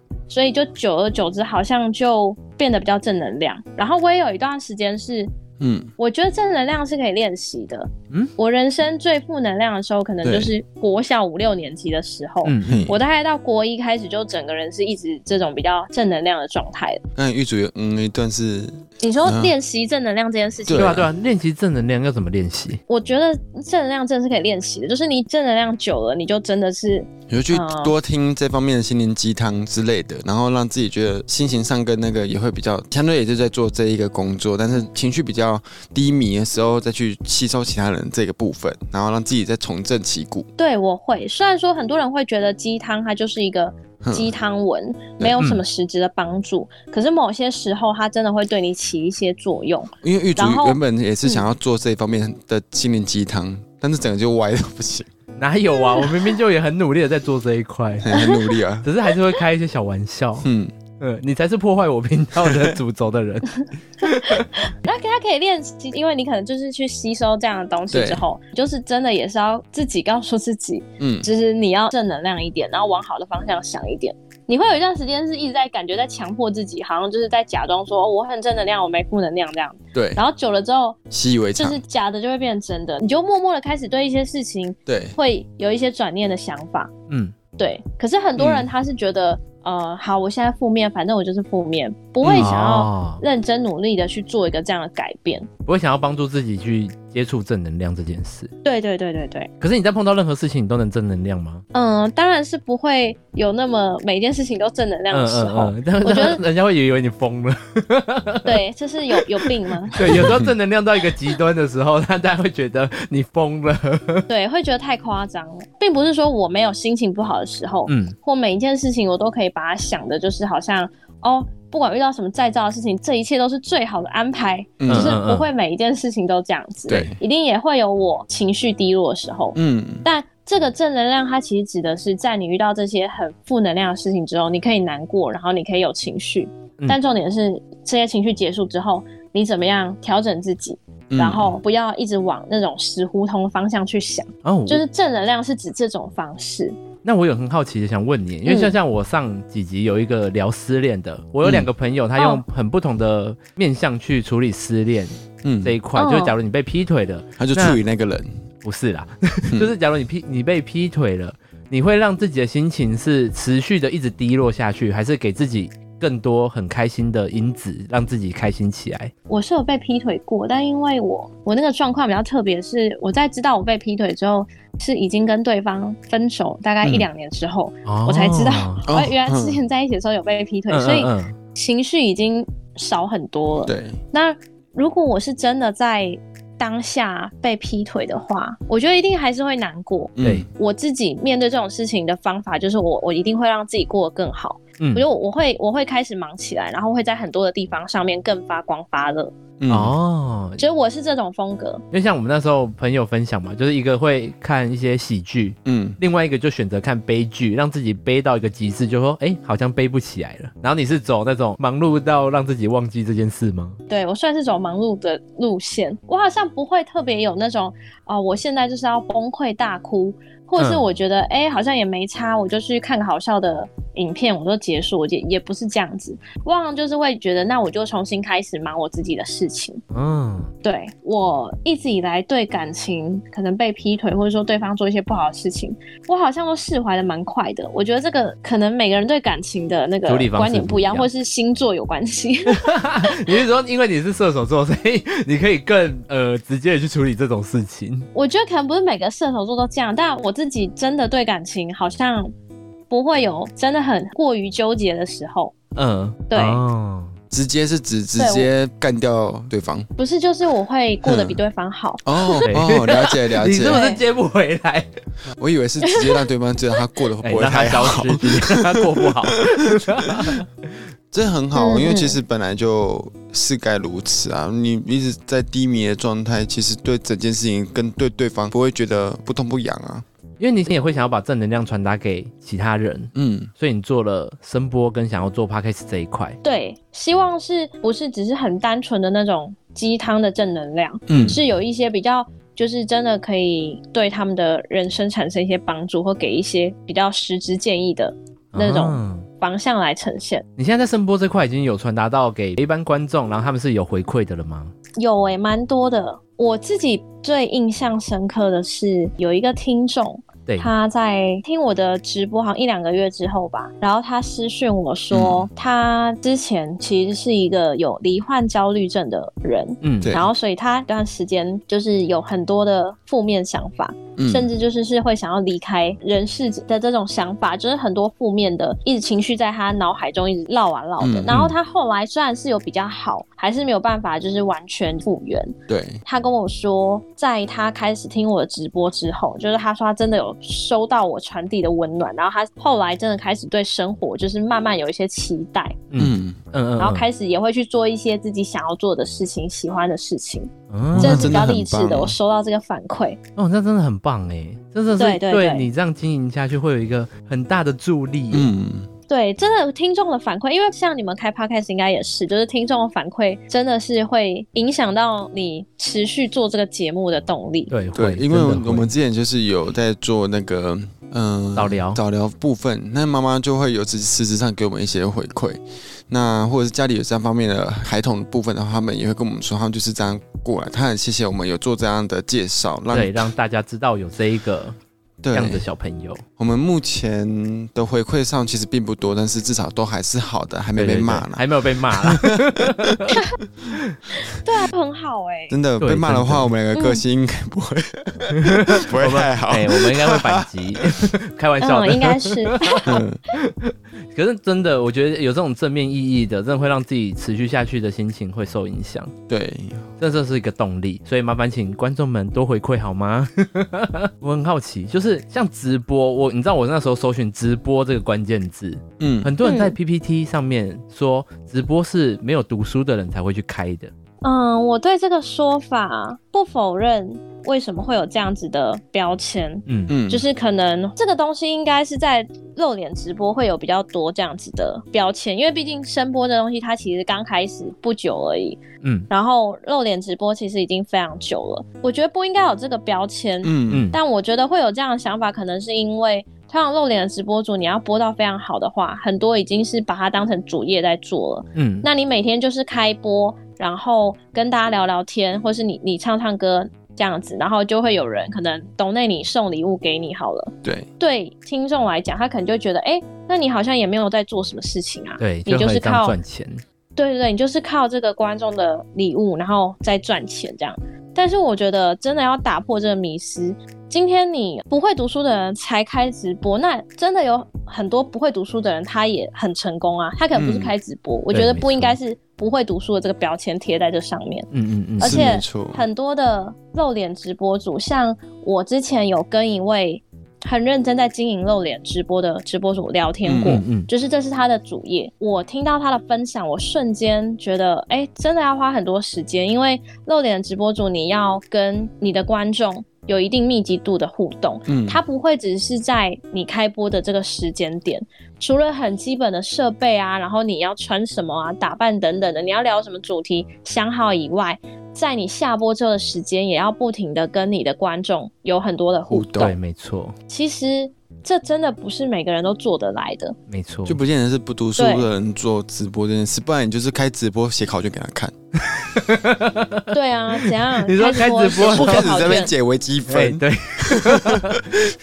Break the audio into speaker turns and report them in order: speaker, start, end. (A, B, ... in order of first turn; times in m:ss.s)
0:00.3-0:05.3 A
0:05.6-0:05.9 B
0:06.0-0:17.0 A
0:10.2-0:10.5 B
0:12.4-0:12.9 C
0:12.7-0:13.0 B
0:17.2-0:19.5 B
0:19.0-0:21.0 A
0:20.7-0:21.1 B
0:20.7-0:22.8 C
0:22.9-0:27.9 A
0:27.3-0:40.5 B
0:40.6-0:51.4 A
0:44.0-0:44.3 B
0:50.0-0:55.1 B
0:55.4-0:58.2 C
0:58.0-0:58.9 B
0:58.1-0:58.6 A
0:58.8-1:00.5 C
1:00.4-1:00.7 B
1:01.0-1:04.5 C
1:02.4-1:02.8 B
1:04.0-1:21.0 A
1:07.9-1:08.2 B
1:11.0-1:11.3 B
1:19.9-1:20.2 B
1:21.1-1:21.8 B
1:21.6-1:26.9 A
1:24.9-1:25.2 B
1:27.1-1:27.3 C
1:27.6-1:35.5 A
1:28.4-1:28.7 B
1:32.2-1:32.5 B
1:32.4-1:33.2 C
1:35.6-1:38.5 C
1:38.6-1:39.5 A
1:39.6-1:41.6 C
1:41.7-1:46.4 A
1:45.1-1:48.6 C
1:48.4-1:50.3 A
1:49.2-1:54.3 C
1:50.1-1:50.5 B
1:54.3-2:26.8 A
1:57.9-1:58.1 C
2:04.8-2:05.2 B
2:04.9-2:05.5 C
2:06.9-2:07.2 B
2:09.6-2:10.0 B
2:21.1-2:21.6 B
2:24.4-2:24.8 C
2:27.0-2:37.8 C
2:28.4-2:28.7 A
2:32.2-2:32.4 A
2:35.4-2:35.7 B
2:36.0-2:36.3 A
2:37.4-2:38.3 B
2:38.6-2:49.1 C
2:49.3-3:19.3 A
2:57.8-2:58.8 C
2:58.8-2:59.6 B
3:00.7-3:01.4 C
3:03.6-3:04.0 B
3:10.2-3:10.5 B
3:14.8-3:15.0 C
3:19.6-3:19.9 B
3:19.7-3:20.6 C
3:20.6-3:21.8 A
3:21.9-3:33.8 C
3:25.6-3:26.0 B
3:33.9-3:49.8 A
3:40.6-3:40.8 C
3:49.9-3:50.5 C
3:50.6-4:03.3 A
4:00.1-4:01.1 C
4:02.5-4:08.1 C
4:08.1-4:12.3 A
4:12.9-4:15.5 A
4:15.8-4:17.1 C
4:16.3-4:16.6 A
4:17.3-4:19.9 B
4:18.2-4:18.5 A
4:20.0-4:22.5 A
4:21.0-4:21.4 B
4:22.0-4:23.8 B
4:22.4-4:24.9 C
4:23.6-4:24.0 A
4:25.4-4:30.4 B
4:25.8-4:26.2 A
4:27.2-4:30.5 C
4:31.1-4:40.0 B
4:31.5-4:32.2 A
4:40.4-4:46.4 C
4:43.1-4:43.5 B
4:46.4-5:00.4 A
4:51.1-4:51.4 B
4:58.5-4:59.3 C
5:00.6-5:04.7 C
5:05.0-5:45.8 A
5:15.1-5:15.5 B
5:19.8-5:20.2 C
5:24.2-5:24.5 B
5:31.0-5:31.4 B
5:31.3-5:31.5 C
5:35.7-5:36.0 B
5:45.9-5:47.1 C
5:46.0-5:46.4 B
5:46.8-5:53.2 A
5:50.7-5:51.3 C
5:50.9-5:52.2 B
5:53.4-5:58.5 C
5:55.0-5:55.7 A
5:58.3-5:58.9 B
5:59.1-6:07.7 A
6:07.7-6:08.9 C
6:07.9-6:23.3 B
6:11.6-6:12.0 C
6:22.9-6:24.8 C
6:25.2-6:25.6 B
6:25.3-6:26.2 C
6:26.4-6:33.1 B
6:30.8-6:33.2 C
6:34.2-6:35.6 A
6:35.5-6:40.9 B
6:35.8-6:36.5 C
6:36.7-6:37.0 A
6:38.4-6:49.1 C
6:41.6-6:43.0 A
6:42.8-6:43.2 B
6:49.3-6:49.9 B
6:50.0-7:03.9 C
6:59.0-6:59.3 B
6:59.4-6:59.8 A
7:04.2-7:46.2 A
7:09.7-7:09.9 C
7:09.9-7:10.2 B
7:18.8-7:19.1 C
7:23.4-7:23.9 B
7:23.7-7:24.0 C
7:31.6-7:31.9 C
7:45.2-7:46.6 C
7:47.0-8:39.6 A
8:00.3-8:00.7 B
8:01.3-8:02.0 C
8:04.5-8:05.3 C
8:05.0-8:05.8 B
8:13.2-8:13.6 B
8:13.4-8:13.9 C
8:24.7-8:25.0 B
8:39.1-8:39.5 B
8:39.4-8:40.1 C
8:40.3-8:43.4 A
8:43.5-8:44.0 C
8:43.8-8:48.3 B
8:44.8-8:45.1 A
8:48.6-8:52.2 C
8:49.9-8:52.5 A
8:51.5-8:54.8 B
8:53.1-8:54.7 C